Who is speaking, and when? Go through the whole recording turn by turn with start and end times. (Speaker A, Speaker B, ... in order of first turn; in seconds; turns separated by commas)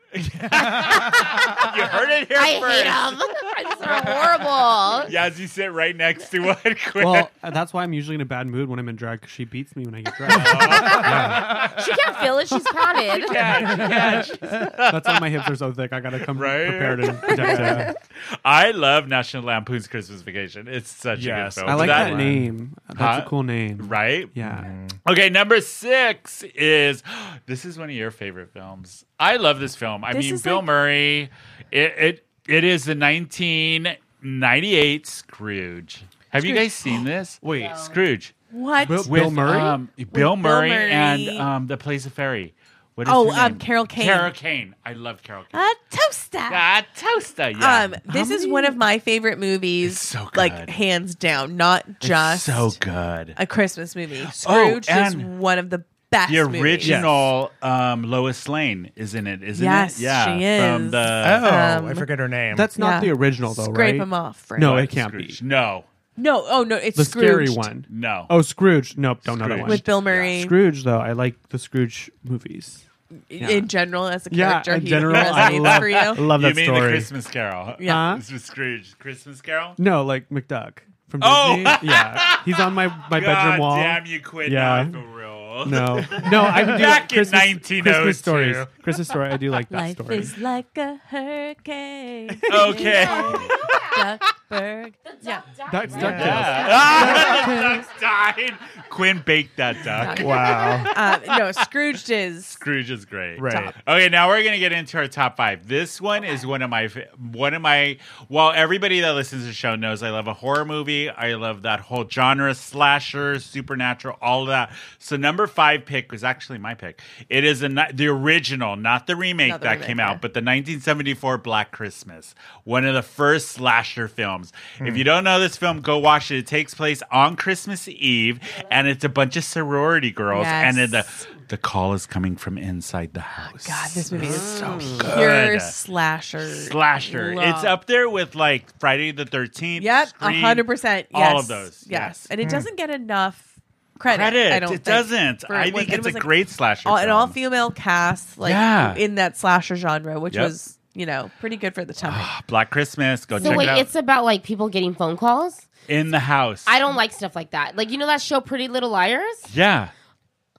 Speaker A: 0.1-4.4, Speaker B: 0.7-5.2, Speaker A: 5.0-7.3, Speaker C: 7.0-11.5, Speaker A: 10.3-11.9, Speaker B: 10.3-13.9, Speaker A: 13.1-15.2, Speaker D: 13.9-14.4, Speaker C: 14.9-17.9, Speaker A: 16.3-22.4, Speaker D: 17.6-17.9, Speaker D: 21.1-22.5, Speaker C: 21.7-24.7, Speaker A: 22.9-24.4, Speaker D: 24.4-25.0, Speaker A: 25.1-38.3, Speaker E: 30.1-30.7, Speaker E: 36.4-37.0, Speaker C: 37.4-37.7, Speaker B: 37.5-38.0, Speaker E: 38.5-41.5, Speaker C: 38.8-39.8, Speaker A: 39.0-45.6, Speaker E: 43.0-44.3, Speaker E: 45.5-46.6, Speaker A: 46.5-48.5, Speaker E: 47.6-52.8, Speaker A: 49.8-50.8, Speaker A: 52.0-53.4, Speaker E: 53.4-57.1, Speaker A: 54.2-55.3, Speaker A: 56.3-61.6, Speaker E: 59.5-62.1, Speaker D: 61.2-62.7, Speaker C: 62.5-65.4, Speaker E: 62.7-64.8, Speaker A: 64.6-65.9, Speaker E: 66.2-67.8, Speaker C: 67.0-72.8, Speaker A: 67.9-68.3, Speaker A: 69.2-70.3, Speaker E: 69.6-70.6, Speaker E: 73.3-76.2, Speaker C: 73.4-73.7, Speaker C: 74.3-77.1, Speaker A: 75.1-79.8, Speaker E: 77.8-78.1, Speaker C: 77.8-78.2, Speaker C: 79.8-85.0, Speaker A: 81.2-88.9, Speaker C: 85.6-90.4, Speaker E: 89.7-95.5, Speaker C: 92.3-92.7, Speaker A: 92.5-93.9, Speaker B: 92.8-94.0, Speaker B: 95.0-97.5, Speaker C: 95.7-97.8, Speaker D: 95.9-96.5, Speaker A: 96.0-101.7, Speaker E: 96.1-97.7, Speaker E: 99.9-102.6, Speaker D: 100.1-100.9, Speaker A: 102.5-135.8, Speaker D: 103.4-103.7, Speaker E: 103.5-103.7, Speaker E: 119.4-120.2, Speaker E: 130.3-131.0, Speaker E: 133.4-137.8, Speaker A: 136.4-142.3, Speaker E: 139.8-146.3, Speaker D: 142.4-142.7, Speaker A: 144.1-147.4, Speaker E: 146.8-152.3, Speaker A: 148.4-149.0, Speaker A: 152.0-153.9, Speaker E: 153.4-153.7, Speaker B: 153.4-155.7, Speaker A: 155.9-156.8, Speaker B: 156.7-159.5, Speaker A: 159.5-159.9